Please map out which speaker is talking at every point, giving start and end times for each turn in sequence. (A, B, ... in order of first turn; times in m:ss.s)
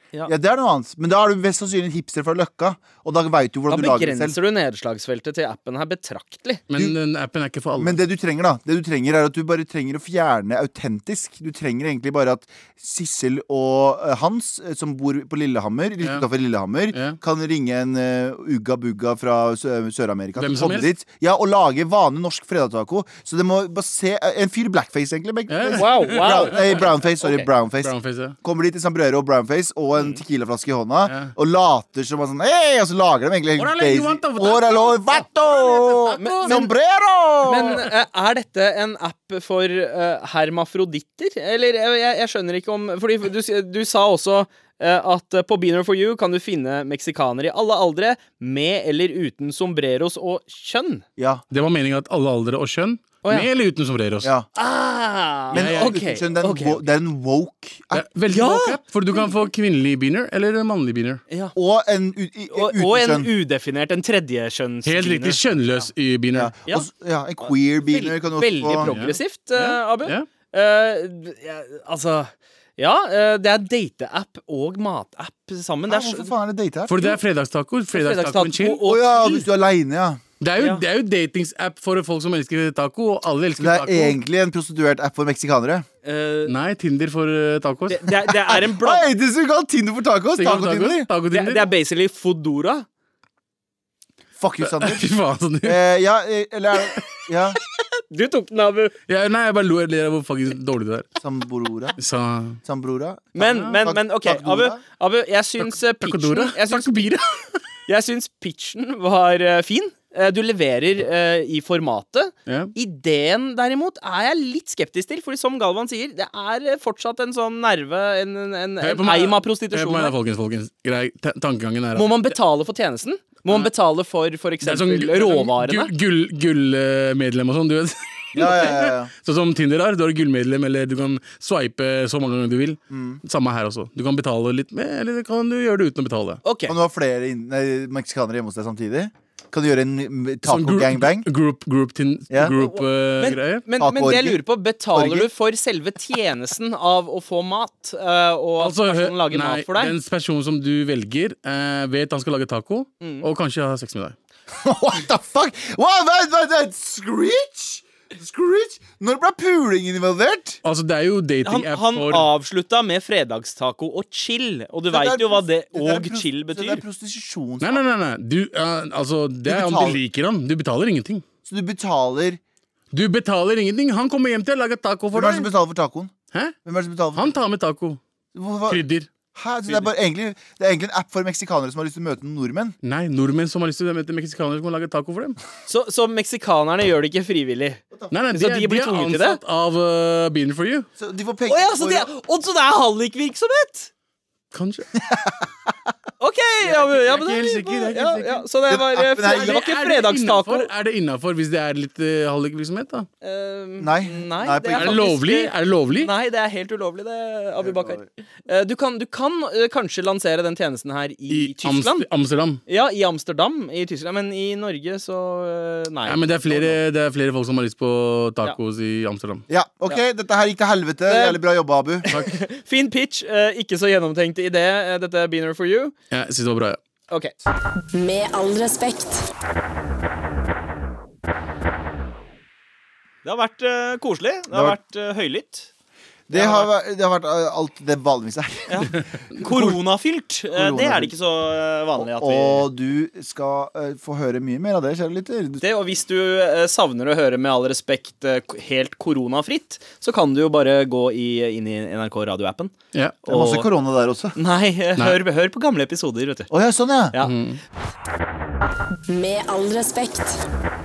0:00.2-0:04.4 A
0:03.7-0:06.6 B
0:06.7-0:08.0 C
0:07.8-0:37.9 A
0:16.9-0:17.2 C
0:20.4-0:20.9 C
0:25.5-0:26.9 C
0:25.7-0:27.4 B
0:27.8-0:28.4 C
0:31.1-0:31.3 C
0:33.6-0:36.5 C
0:36.2-0:36.7 B
0:37.4-0:51.0 B
0:51.2-0:51.4 A
0:51.5-0:54.3 C
0:54.5-0:56.8 B
0:55.5-0:58.1 A
0:55.5-0:56.0 C
0:57.9-1:01.2 C
0:58.3-0:58.8 B
1:01.5-1:03.3 A
1:02.5-1:05.8 B
1:04.8-1:06.5 C
1:06.3-1:08.9 A
1:07.5-1:16.3 B
1:08.8-1:10.3 C
1:15.9-1:17.2 A
1:16.9-1:18.8 C
1:17.9-1:19.5 B
1:18.8-1:20.2 A
1:20.4-1:24.2 C
1:23.6-1:25.8 A
1:26.0-1:26.5 B
1:26.5-1:28.2 C
1:27.9-1:29.1 B
1:28.4-1:31.1 A
1:30.4-1:31.6 C
1:31.3-1:32.8 B
1:34.4-1:35.1 A
1:34.6-1:35.8 C
1:35.6-1:37.6 A
1:38.0-1:38.9 B
1:39.1-1:41.1 C
1:41.2-1:42.0 A
1:42.0-1:42.6 C
1:42.6-1:44.8 A
1:43.4-1:47.2 B
1:43.4-1:43.7 C
1:45.6-1:47.2 C
1:47.9-2:00.1 B
1:52.5-1:52.7 C
1:58.8-2:02.3 C
2:01.9-2:05.9 B
2:04.6-2:16.4 C
2:08.3-2:09.1 A
2:12.9-2:13.2 A
2:16.4-2:16.8 B
2:16.7-2:21.3 A
2:20.4-2:23.6 C
2:22.3-2:22.5 A
2:22.5-2:29.9 B
2:23.8-2:24.4 A
2:24.9-2:25.3 A
2:28.6-2:34.2 C
2:33.0-2:33.2 B
2:34.6-2:40.6 A
2:40.6-2:42.3 C
2:41.4-2:46.8 B
2:44.9-2:47.8 A
2:47.6-2:51.2 C
2:49.4-2:50.0 A
2:51.4-2:52.4 A
2:52.9-2:55.5 C
2:55.1-2:56.1 A
2:56.6-2:57.3 A
2:57.1-2:58.0 C
2:58.3-2:58.8 A
2:58.7-2:59.1 C
2:59.3-3:02.8 A
3:02.8-3:05.4 C
3:05.7-3:07.8 B
3:08.1-3:10.9 C
3:08.3-3:09.4 B
3:11.0-3:12.1 A
3:11.5-3:13.9 B
3:14.5-3:14.9 C
3:14.9-3:15.5 A
3:16.2-3:20.7 B
3:16.6-3:18.5 C
3:18.7-3:19.6 A
3:19.2-3:23.1 C
3:23.2-3:32.0 B
3:23.8-3:25.0 A
3:24.8-3:26.1 C
3:27.6-3:28.1 A
3:31.3-3:32.6 C
3:32.7-3:36.8 B
3:36.0-3:39.4 C
3:39.5-3:42.1 A
3:41.1-3:41.4 B
3:42.1-3:45.9 B
3:46.1-3:46.8 C
3:47.9-3:49.3 D
3:53.2-3:55.7 B
3:54.5-3:54.8 A
3:56.3-3:59.8 A
3:56.3-3:56.7 B
3:58.7-4:02.7 B
4:00.5-4:01.1 A
4:02.0-4:05.6 A
4:05.6-4:12.7 B
4:13.2-4:13.7 B
4:13.3-4:14.4 A
4:14.3-4:16.5 B
4:16.5-4:17.1 A
4:17.2-4:17.6 C
4:19.1-4:20.4 D